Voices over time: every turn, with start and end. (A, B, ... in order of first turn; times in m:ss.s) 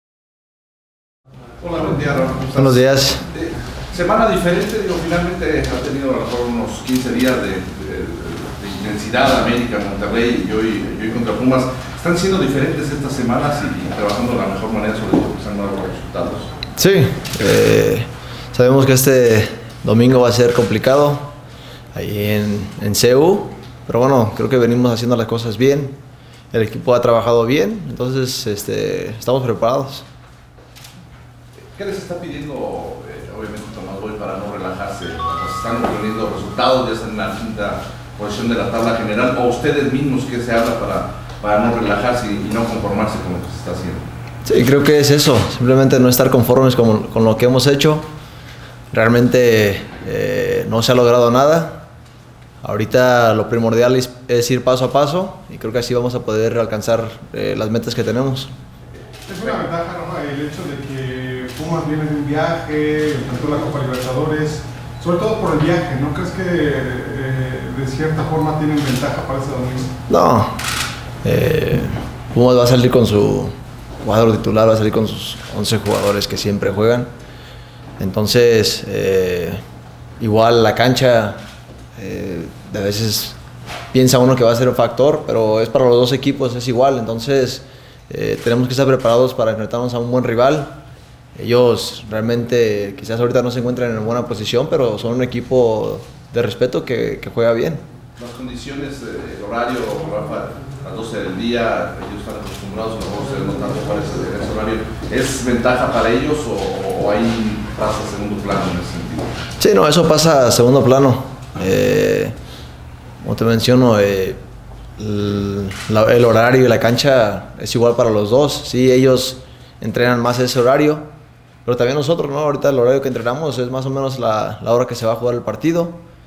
0:01.6-0:16.5 A
0:02.6-0:03.2 B
0:16.8-0:21.3 B
0:21.9-0:26.0 B
0:26.5-0:30.1 B
0:31.8-0:44.1 A
0:44.4-0:48.1 B
0:48.9-0:51.9 B
0:52.6-0:58.5 B
0:59.2-1:09.9 C
1:10.1-1:10.6 B
1:11.2-1:17.1 B
1:18.0-1:19.6 B
1:20.2-1:21.4 B
1:22.0-1:23.4 B
1:23.9-1:30.8 B
1:31.4-1:37.8 B
1:38.2-1:49.4 A
1:49.6-1:52.4 B
1:53.2-1:54.4 B
1:55.0-2:01.1 B
2:01.6-2:06.0 B